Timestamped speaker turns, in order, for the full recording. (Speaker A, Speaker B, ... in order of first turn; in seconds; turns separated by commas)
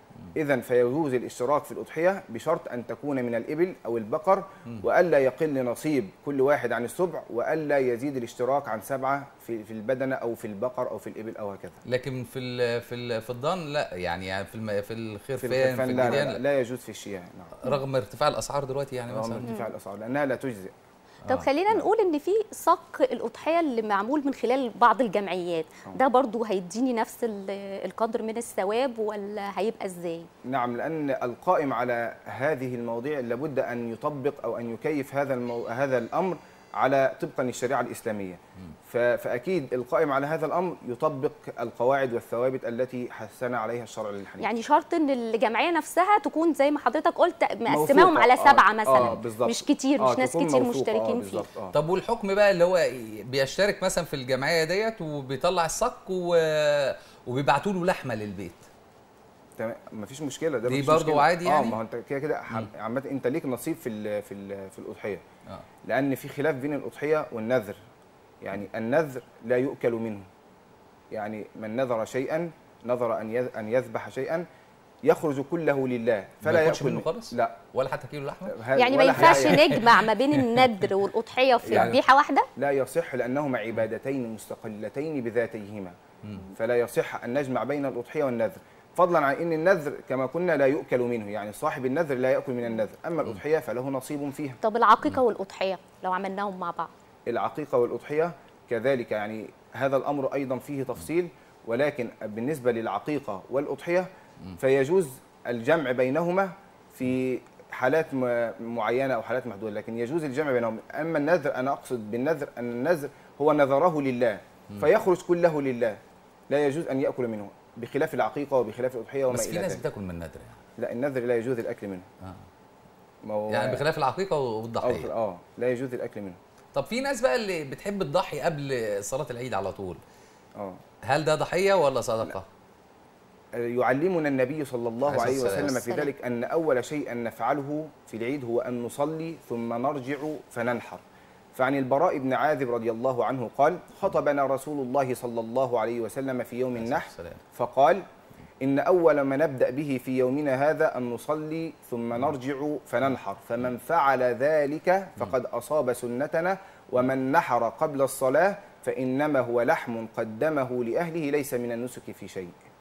Speaker A: 0.3-11.8, Speaker B: 11.9-16.4, Speaker A: 15.4-17.6, Speaker B: 17.6-19.5, Speaker A: 19.1-20.7, Speaker C: 21.3-30.3, Speaker A: 30.5-44.5, Speaker C: 44.4-51.5, Speaker A: 47.7-51.8, Speaker B: 51.7-58.7, Speaker A: 59.6-65.2, Speaker B: 60.7-61.8, Speaker A: 65.9-67.8, Speaker A: 68.4-70.3, Speaker A: 71.1-74.5, Speaker A: 75.0-77.6, Speaker B: 76.4-78.6, Speaker A: 78.5-79.8, Speaker C: 78.8-82.5, Speaker B: 79.1-80.8, Speaker B: 81.6-82.0, Speaker A: 81.7-82.0, Speaker A: 82.6-86.0, Speaker B: 86.2-86.5, Speaker A: 86.5-94.6, Speaker C: 94.6-96.9, Speaker A: 97.3-116.0, Speaker A: 116.5-119.8, Speaker B: 119.3-120.6, Speaker A: 120.8-122.1, Speaker A: 123.2-123.8, Speaker B: 123.5-125.1, Speaker A: 124.8-126.4, Speaker B: 126.7-130.0, Speaker B: 131.1-132.5, Speaker A: 133.6-141.0, Speaker B: 135.1-135.8, Speaker C: 135.6-136.1, Speaker A: 141.6-148.0, Speaker B: 146.8-147.4, Speaker A: 148.6-162.6